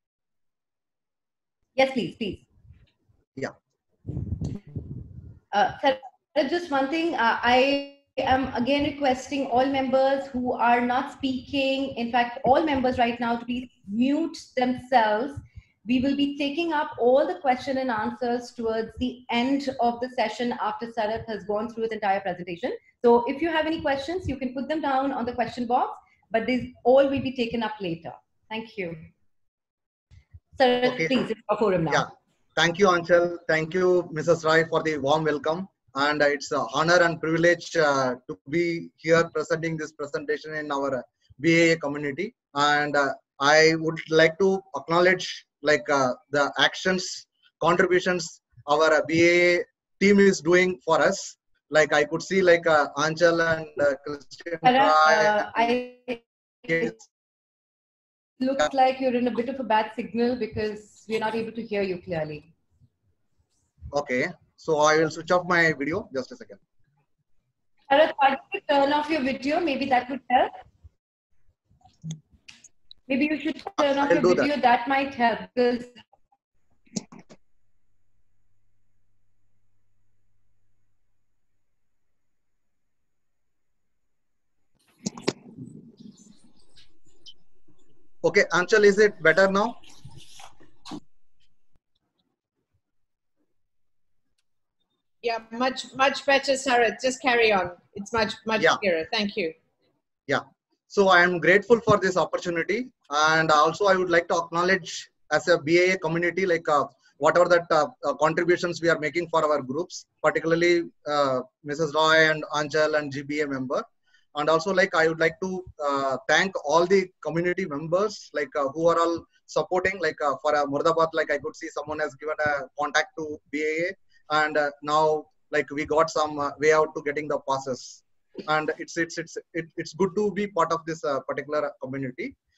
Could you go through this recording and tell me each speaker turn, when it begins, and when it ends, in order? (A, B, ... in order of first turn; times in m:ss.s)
0:01.8-0:02.4 A
0:05.5-0:29.1 A
0:30.6-0:32.0 A
0:30.8-0:31.1 B
0:31.9-0:55.8 B
0:54.6-0:56.9 A
0:56.7-0:57.0 B
0:58.4-1:02.5 A
1:03.9-1:06.6 B
1:07.9-1:10.5 A
1:13.1-1:16.0 A
1:13.8-1:14.5 B
1:28.2-1:29.8 B
1:35.2-1:39.6 C
1:40.3-2:12.3 B